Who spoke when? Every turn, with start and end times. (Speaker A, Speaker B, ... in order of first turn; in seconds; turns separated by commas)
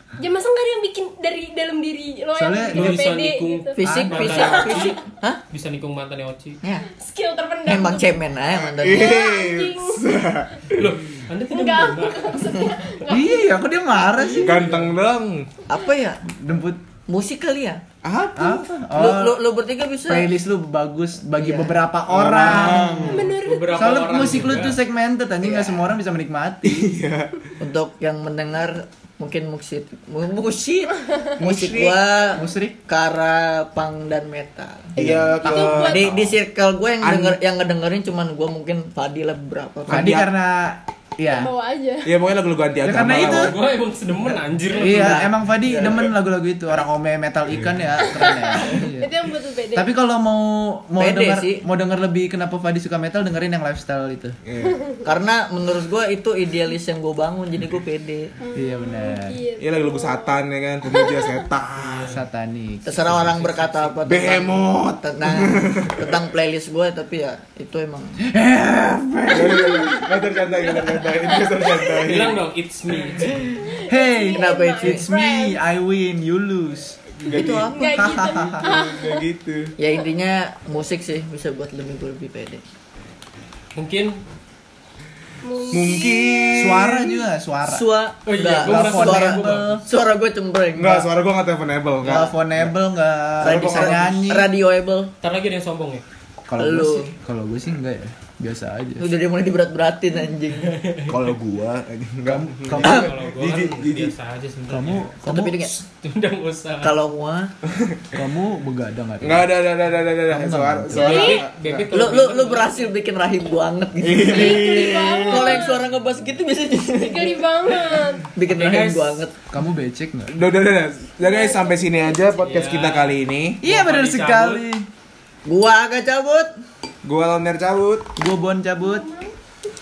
Speaker A: 0.2-5.0, Speaker B: 2.4-3.0, Speaker C: 2.7-5.0, Speaker D: 3.8-5.4, Speaker B: 3.9-4.6, Speaker C: 5.5-6.6, Speaker D: 6.6-6.9, Speaker A: 6.9-8.2, Speaker D: 7.6-9.3, Speaker E: 8.5-10.9, Speaker A: 8.8-10.2, Speaker C: 10.7-12.3, Speaker A: 11.5-14.4, Speaker B: 13.1-14.6, Speaker E: 14.3-15.5, Speaker C: 14.4-14.9, Speaker D: 15.7-16.2, Speaker B: 16.3-16.8, Speaker D: 17.1-17.8, Speaker E: 18.0-18.7, Speaker B: 18.3-19.4, Speaker D: 18.9-20.3, Speaker B: 20.0-27.0, Speaker D: 21.4-21.8, Speaker E: 22.1-23.3, Speaker A: 22.8-24.2, Speaker C: 23.1-24.8, Speaker D: 25.4-25.9, Speaker E: 26.6-27.4, Speaker D: 27.6-35.0, Speaker E: 31.4-32.0, Speaker B: 32.3-32.8, Speaker B: 35.0-35.9, Speaker E: 35.0-36.3, Speaker A: 35.4-36.1, Speaker D: 35.8-40.2, Speaker E: 37.0-37.4, Speaker B: 39.9-41.5, Speaker E: 39.9-40.3, Speaker A: 41.3-42.1, Speaker E: 42.0-43.6, Speaker B: 42.8-43.6, Speaker C: 43.0-45.3, Speaker D: 44.8-46.1, Speaker B: 44.8-49.1, Speaker A: 48.0-49.9, Speaker B: 49.7-54.4, Speaker D: 51.0-51.6, Speaker E: 54.4-54.8, Speaker D: 55.0-58.3, Speaker A: 58.4-61.5, Speaker B: 58.5-59.4, Speaker E: 59.6-62.2, Speaker C: 61.8-62.2, Speaker B: 62.1-63.1, Speaker D: 62.8-68.2, Speaker C: 63.1-63.9, Speaker E: 64.0-66.2, Speaker B: 68.2-70.1, Speaker E: 69.3-72.4, Speaker A: 69.4-71.9, Speaker C: 72.0-73.8, Speaker A: 73.6-75.6, Speaker B: 73.8-77.0, Speaker D: 74.3-75.0, Speaker E: 77.2-79.7, Speaker D: 77.2-78.2, Speaker A: 77.3-79.2, Speaker B: 77.9-78.7, Speaker D: 79.8-82.6, Speaker C: 83.8-84.2, Speaker A: 85.4-87.0, Speaker E: 85.7-87.2, Speaker B: 86.5-87.9, Speaker D: 87.6-91.1, Speaker C: 88.2-89.8, Speaker B: 88.6-89.8, Speaker E: 90.7-92.7, Speaker B: 92.0-94.5, Speaker E: 93.4-94.2, Speaker D: 93.4-95.1, Speaker C: 95.2-96.0, Speaker B: 96.5-99.0, Speaker D: 96.6-97.1, Speaker D: 99.0-100.7, Speaker C: 100.6-101.2, Speaker E: 101.1-104.1, Speaker B: 102.2-103.1, Speaker C: 102.7-105.2, Speaker B: 104.7-105.6, Speaker D: 105.2-105.8, Speaker C: 105.8-107.0, Speaker D: 106.8-107.5, Speaker B: 108.1-109.5, Speaker E: 109.2-111.9, Speaker B: 110.2-111.3, Speaker A: 110.9-111.5, Speaker C: 111.0-112.8, Speaker D: 111.9-117.4, Speaker E: 114.0-115.7, Speaker A: 114.2-115.8, Speaker A: 117.0-118.3, Speaker D: 118.3-119.3, Speaker C: 118.4-119.2, Speaker B: 119.5-120.3, Speaker E: 120.3-123.6, Speaker A: 121.2-121.8, Speaker C: 122.4-124.6, Speaker B: 123.6-124.9, Speaker D: 125.5-126.5, Speaker E: 127.0-128.1, Speaker B: 128.2-129.1, Speaker A: 128.8-129.3